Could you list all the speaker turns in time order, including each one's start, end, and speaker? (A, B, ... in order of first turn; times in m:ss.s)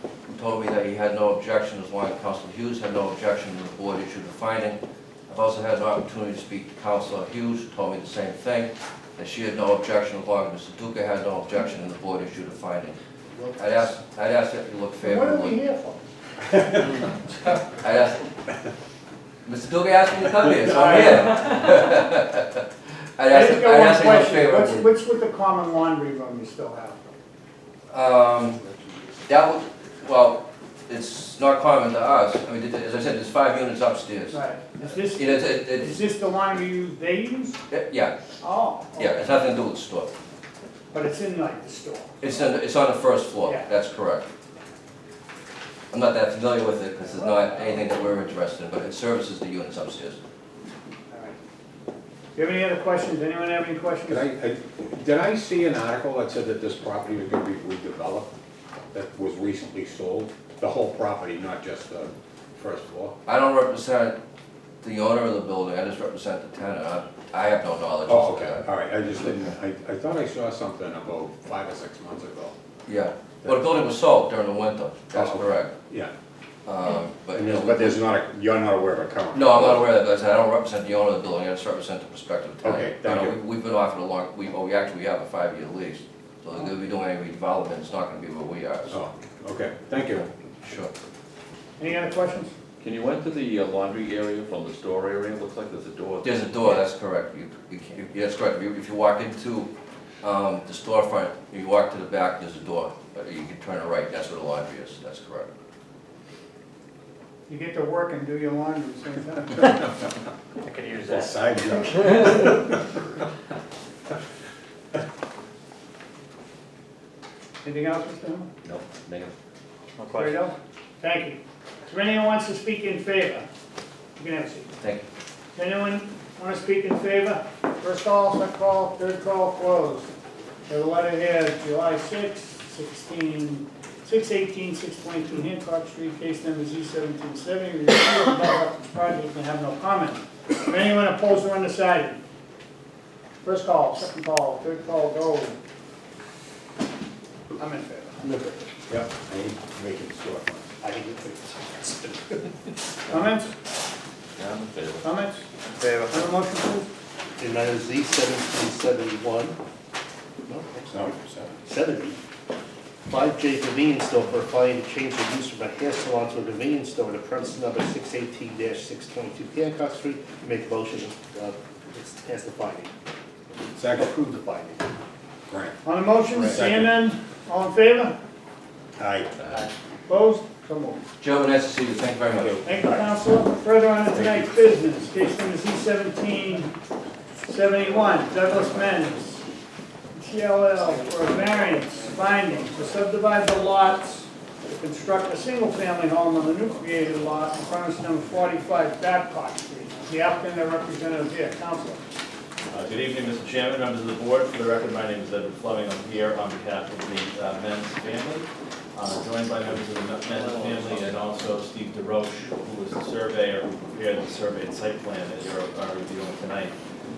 0:00.3-0:13.0 A
0:13.6-0:15.6 A
0:15.0-0:16.0 B
0:16.6-0:17.0 C
0:17.4-0:18.2 A
0:19.4-0:22.6 A
0:20.7-0:21.4 B
0:23.2-0:24.9 A
0:23.3-0:27.0 B
0:27.9-0:28.6 A
0:29.3-0:34.4 A
0:34.3-0:37.6 B
0:35.0-0:36.0 A
0:37.7-0:38.1 A
0:38.4-0:39.4 B
0:39.0-0:40.1 A
0:40.9-0:42.4 B
0:42.2-0:44.2 A
0:43.4-0:43.7 B
0:45.9-0:50.2 A
0:47.1-0:47.9 B
0:51.1-0:51.4 B
0:52.3-0:54.2 B
0:54.1-0:58.3 C
0:58.9-1:03.1 C
1:03.2-1:04.2 A
1:04.8-1:08.6 A
1:08.1-1:12.5 C
1:12.9-1:15.7 A
1:15.1-1:16.1 C
1:16.6-1:18.0 A
1:17.3-1:19.9 C
1:19.3-1:29.0 A
1:22.6-1:23.4 C
1:28.9-1:30.3 C
1:30.6-1:30.9 A
1:31.8-1:32.5 B
1:32.8-1:36.5 D
1:36.2-1:39.7 A
1:40.2-1:45.5 A
1:47.5-1:49.8 B
1:50.7-1:51.0 D
1:51.0-1:52.8 C
1:57.6-1:58.5 B
1:58.8-1:59.3 A
2:00.1-2:03.4 B
2:04.2-2:04.7 B
2:05.5-2:10.1 B
2:10.7-2:22.2 B
2:23.4-2:25.6 B
2:27.6-2:28.2 B
2:28.2-2:28.6 E
2:28.9-2:30.6 C
2:30.8-2:32.8 E
2:33.1-2:33.5 B
2:34.4-2:35.0 D
2:35.0-2:35.4 B
2:35.8-2:36.2 D
2:36.1-2:36.9 B
2:37.4-2:39.6 E
2:40.5-2:42.2 E
2:40.9-2:41.5 C
2:43.0-2:52.9 E
2:53.7-2:54.8 C
2:55.5-2:55.8 C
2:55.8-2:58.1 B
2:56.3-2:56.9 C
2:59.0-2:59.6 C
3:00.1-3:01.0 B
3:01.2-3:02.6 A
3:02.3-3:03.0 C
3:02.6-3:06.7 B
3:04.2-3:04.5 C
3:07.4-3:09.4 B
3:10.1-3:22.0 B
3:10.8-3:12.8 D
3:22.7-3:36.7 F